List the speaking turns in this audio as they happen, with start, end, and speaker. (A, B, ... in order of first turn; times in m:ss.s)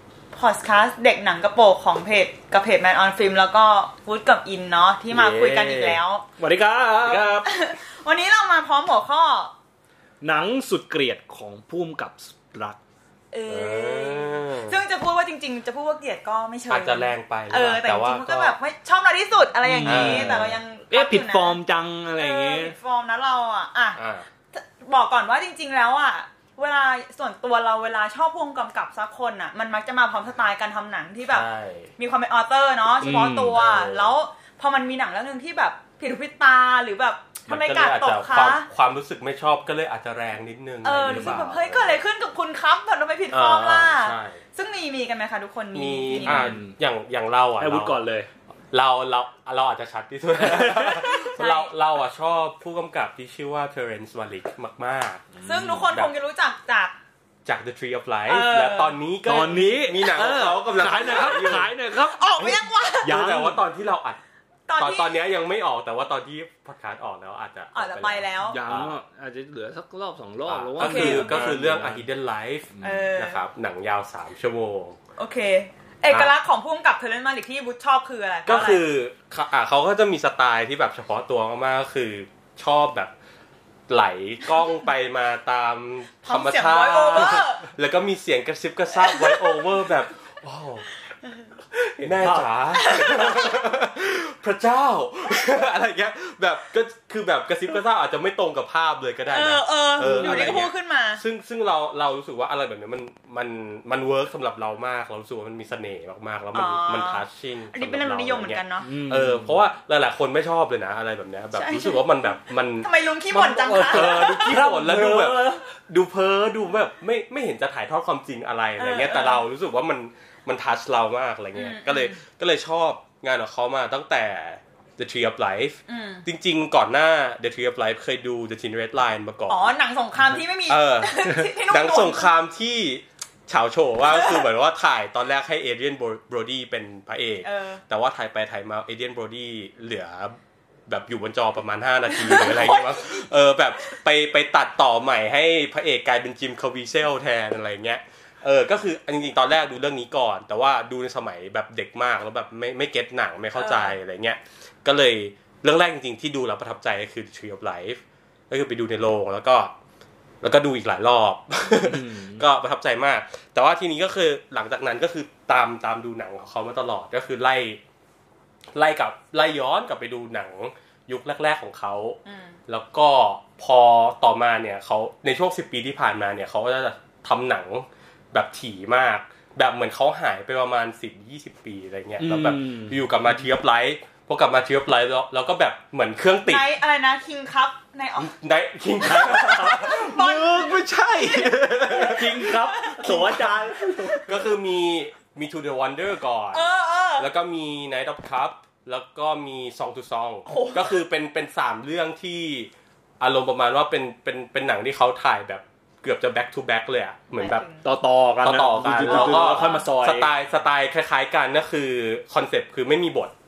0:00.3-0:06.2 A
0:05.1-0:06.0 B
0:06.4-0:07.4 C
0:07.0-0:07.5 B
0:07.4-0:09.5 A
0:10.2-0:12.8 C
0:13.3-0:21.6 A
0:13.5-0:14.8 B
0:16.7-0:18.6 B
0:19.6-0:22.7 C
0:19.8-0:20.6 B
0:22.2-0:31.4 A
0:24.0-0:24.2 B
0:31.2-0:31.9 B
0:32.0-0:38.7 A
0:33.0-0:33.6 C
0:33.0-0:34.1 B
0:37.5-0:42.0 B
0:40.8-0:46.5 A
0:41.1-0:41.4 C
0:43.3-0:44.4 B
0:45.7-0:48.0 B
0:46.1-0:46.8 C
0:47.6-0:48.3 C
0:48.7-0:55.3 B
0:50.4-0:51.2 C
0:51.1-0:51.7 A
0:55.3-0:55.9 C
0:55.4-0:56.9 A
0:57.4-1:01.7 B
0:58.3-0:59.0 A
0:59.2-1:02.3 C
1:01.9-1:03.2 A
1:02.4-1:04.2 B
1:03.0-1:03.6 C
1:04.7-1:05.2 A
1:04.8-1:08.9 B
1:07.7-1:08.6 A
1:08.4-1:12.0 C
1:10.4-1:15.0 B
1:10.8-1:11.5 A
1:12.7-1:13.1 C
1:12.8-1:13.4 A
1:15.2-1:18.8 A
1:16.1-1:16.3 B
1:18.4-1:23.1 B
1:23.9-1:30.9 B
1:26.2-1:27.6 A
1:29.0-1:29.5 A
1:31.7-1:32.5 C
1:32.0-1:52.9 B
1:32.7-1:33.6 A
1:39.3-1:41.2 A
1:40.0-1:40.6 C
1:46.5-1:48.8 A
1:48.8-1:49.6 C
1:51.5-1:54.6 A
1:53.3-1:55.7 C
1:53.9-2:09.7 B
1:58.8-1:59.4 A
2:01.5-2:02.1 A
2:05.9-2:06.2 A
2:09.5-2:12.3 A
2:10.7-2:20.4 B
2:14.1-2:14.4 A
2:17.4-2:17.8 A
2:20.9-2:39.7 B
2:22.1-2:23.2 A
2:33.6-2:34.0 A
2:40.4-2:47.8 B
2:41.8-2:42.4 C
2:48.7-3:06.7 B
2:52.2-2:52.6 A
3:02.2-3:03.4 C
3:06.5-3:08.3 A
3:08.2-3:12.5 B
3:09.1-3:14.3 A
3:09.2-3:10.1 C
3:11.9-3:14.3 C
3:13.0-3:13.4 B
3:14.2-3:27.6 B
3:16.5-3:17.3 A
3:20.5-3:20.9 A
3:27.4-3:27.8 A
3:27.8-3:30.3 C
3:28.4-3:33.3 B
3:29.0-3:29.8 A